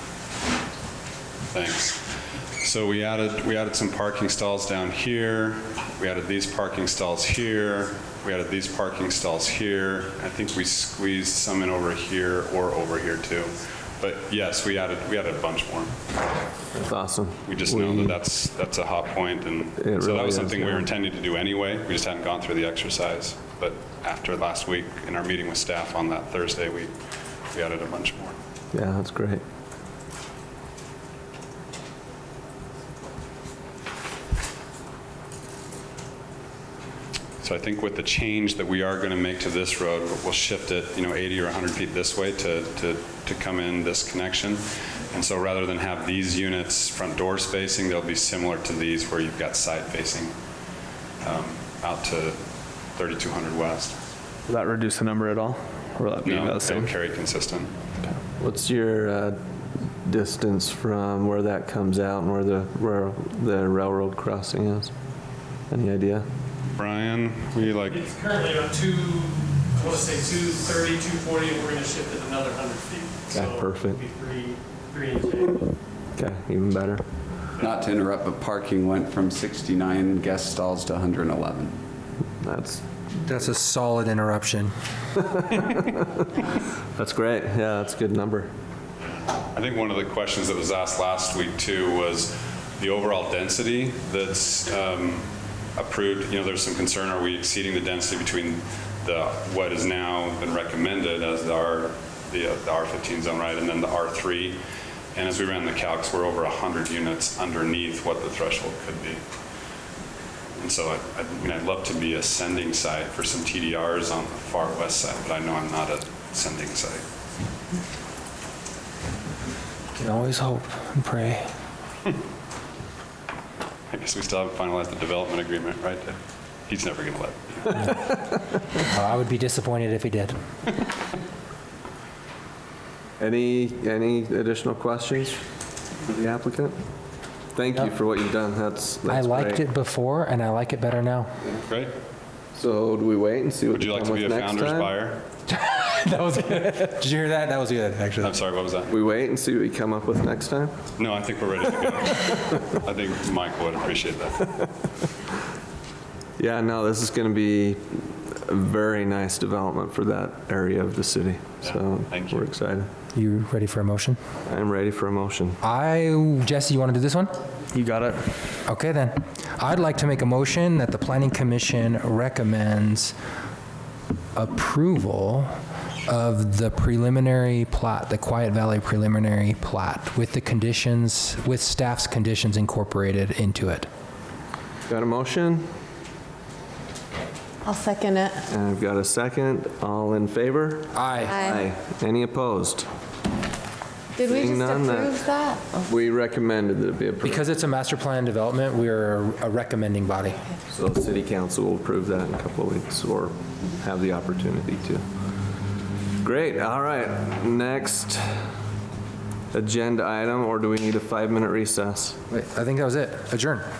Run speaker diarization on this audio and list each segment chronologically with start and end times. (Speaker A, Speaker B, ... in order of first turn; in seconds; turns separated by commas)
Speaker A: 1.5-2.0, Speaker A: 2.6-15.9, Speaker B: 16.7-18.2, Speaker A: 17.5-26.9, Speaker B: 19.8-20.9, Speaker A: 27.5-28.4, Speaker B: 28.7-29.4, Speaker A: 37.4-50.4, Speaker A: 51.2-52.4, Speaker A: 52.9-54.0, Speaker B: 54.5-55.0, Speaker C: 54.8-56.2, Speaker B: 56.0-56.9, Speaker A: 56.2-57.7, Speaker B: 58.4-59.4, Speaker B: 60.0-64.9, Speaker B: 65.7-66.3, Speaker A: 66.8-68.1, Speaker D: 67.9-75.6, Speaker B: 73.3-74.0, Speaker B: 76.2-77.0, Speaker E: 77.6-81.7, Speaker C: 77.8-79.3, Speaker C: 80.0-81.3, Speaker B: 82.4-82.8, Speaker F: 83.2-84.7, Speaker B: 87.0-88.5, Speaker A: 89.5-104.6, Speaker A: 105.2-109.2, Speaker A: 110.6-117.0, Speaker F: 120.0-121.5, Speaker A: 123.9-126.2, Speaker A: 126.7-128.0, Speaker F: 128.8-130.4, Speaker B: 133.2-135.4, Speaker B: 136.1-136.8, Speaker B: 137.5-139.6, Speaker F: 139.1-141.3, Speaker A: 141.6-141.9, Speaker B: 142.6-144.9, Speaker A: 143.7-145.2, Speaker F: 145.5-148.4, Speaker A: 148.2-148.9, Speaker B: 148.9-150.7, Speaker A: 151.0-154.5, Speaker B: 156.4-162.9, Speaker A: 161.6-162.5, Speaker F: 163.2-164.2, Speaker B: 164.5-165.6, Speaker F: 165.6-167.3, Speaker B: 167.7-168.2, Speaker F: 168.7-173.1, Speaker F: 174.3-175.5, Speaker F: 176.1-183.9, Speaker B: 184.9-185.7, Speaker G: 187.7-188.4, Speaker B: 188.5-192.9, Speaker F: 190.9-191.4, Speaker G: 191.3-191.6, Speaker G: 194.2-195.9, Speaker B: 194.3-195.2, Speaker B: 195.8-197.4, Speaker F: 197.2-200.4, Speaker B: 200.7-205.0, Speaker B: 206.2-208.2, Speaker B: 209.5-212.2, Speaker F: 212.3-213.7